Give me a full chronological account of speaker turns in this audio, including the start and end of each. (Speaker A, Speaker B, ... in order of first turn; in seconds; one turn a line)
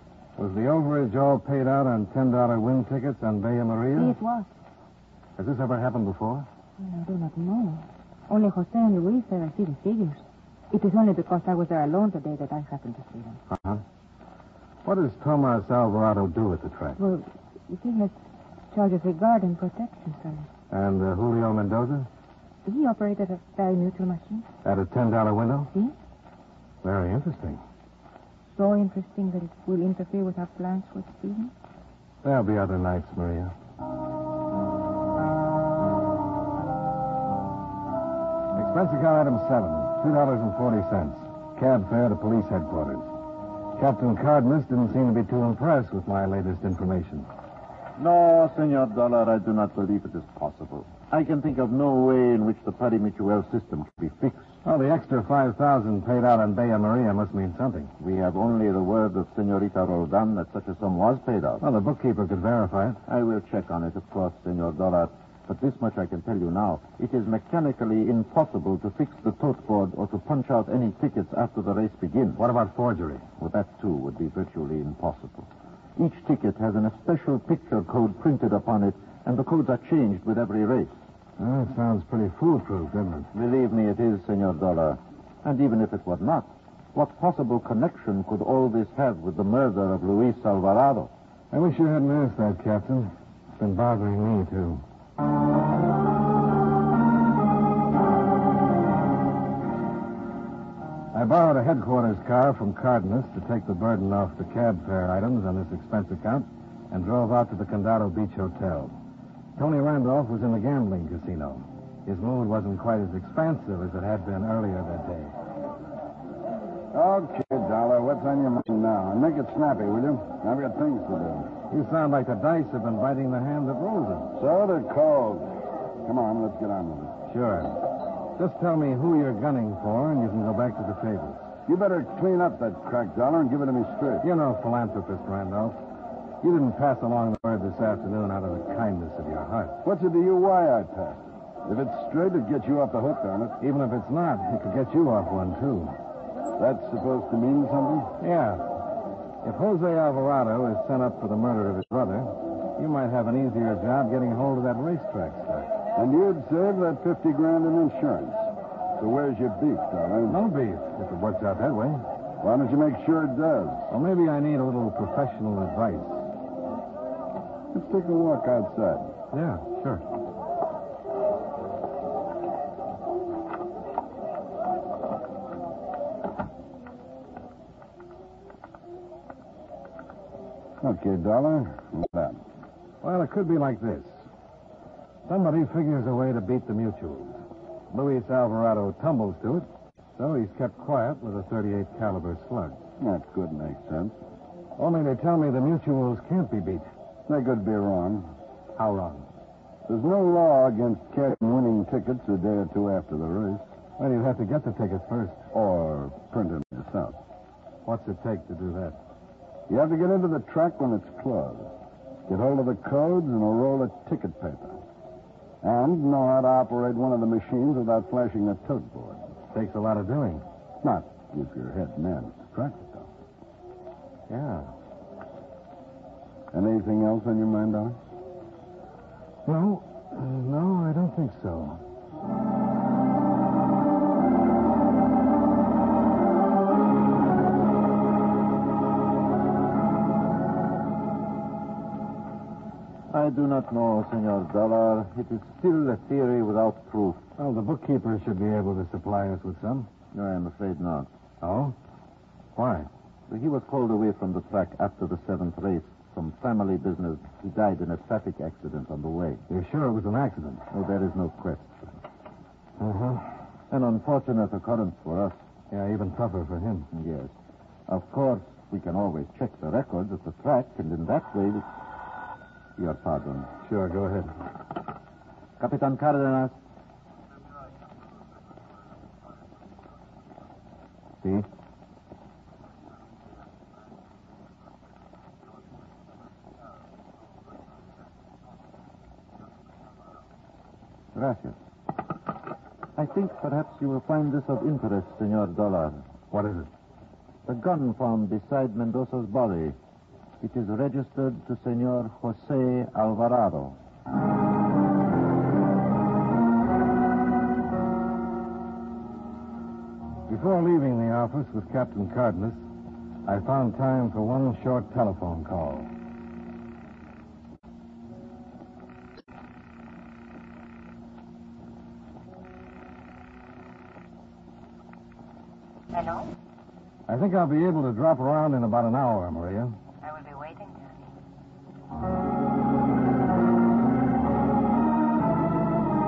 Speaker A: 0.4-4.1
Speaker B: 3.9-4.5
Speaker A: 5.4-6.5
Speaker B: 6.8-13.4
Speaker A: 13.5-13.8
Speaker A: 14.8-17.0
Speaker B: 17.0-18.1
Speaker B: 18.7-20.5
Speaker A: 20.7-22.1
Speaker B: 22.6-24.5
Speaker A: 24.6-25.7
Speaker B: 25.7-25.9
Speaker A: 26.8-27.6
Speaker B: 28.5-31.5
Speaker A: 32.2-33.5
Speaker A: 38.5-43.1
Speaker A: 43.8-47.3
Speaker C: 48.0-54.5
Speaker A: 54.6-57.9
Speaker C: 58.0-61.6
Speaker A: 61.6-63.0
Speaker C: 63.1-72.4
Speaker A: 72.4-73.2
Speaker C: 73.4-81.0
Speaker A: 81.4-83.3
Speaker C: 83.3-91.1
Speaker A: 91.5-94.8
Speaker A: 101.1-108.9
Speaker A: 109.5-115.3
Speaker D: 116.9-121.5
Speaker A: 121.7-124.3
Speaker D: 124.3-127.1
Speaker A: 127.3-127.8
Speaker A: 128.4-131.5
Speaker D: 131.7-134.2
Speaker A: 134.2-135.8
Speaker A: 136.4-139.8
Speaker D: 139.8-143.6
Speaker A: 143.6-145.9
Speaker D: 146.6-148.1
Speaker A: 148.2-148.7
Speaker A: 149.4-155.7
Speaker D: 155.9-160.4
Speaker A: 160.3-162.0
Speaker D: 162.4-163.9
Speaker A: 163.9-166.3
Speaker D: 167.7-169.1
Speaker A: 169.3-170.0
Speaker D: 180.8-182.4
Speaker A: 183.0-184.2
Speaker A: 185.3-192.8
Speaker D: 193.0-194.2
Speaker A: 194.8-196.9
Speaker D: 197.3-198.3
Speaker A: 198.8-199.2
Speaker D: 199.9-203.6
Speaker A: 204.0-205.4
Speaker D: 205.5-207.2
Speaker A: 207.8-209.0
Speaker D: 209.7-211.7
Speaker D: 212.3-214.8
Speaker D: 215.6-219.2
Speaker A: 219.5-220.4
Speaker D: 220.8-223.1
Speaker A: 224.3-224.7
Speaker D: 226.5-228.0
Speaker A: 229.4-231.8
Speaker C: 243.1-247.2
Speaker A: 247.4-249.9
Speaker C: 250.1-251.1
Speaker A: 251.4-251.7
Speaker A: 252.6-252.9
Speaker C: 253.3-259.4
Speaker A: 259.5-260.6
Speaker C: 260.7-261.9
Speaker A: 262.8-263.3
Speaker C: 263.7-265.4
Speaker A: 265.7-266.9
Speaker C: 266.9-267.3
Speaker C: 267.9-271.6
Speaker C: 272.8-273.5
Speaker A: 273.6-274.3
Speaker C: 275.6-276.5
Speaker C: 291.1-291.6
Speaker C: 292.9-296.0
Speaker A: 296.3-296.7
Speaker C: 297.4-299.8
Speaker C: 300.4-303.8
Speaker A: 310.3-312.6
Speaker A: 313.2-315.9
Speaker B: 325.9-326.3
Speaker A: 327.1-329.8
Speaker B: 330.0-331.1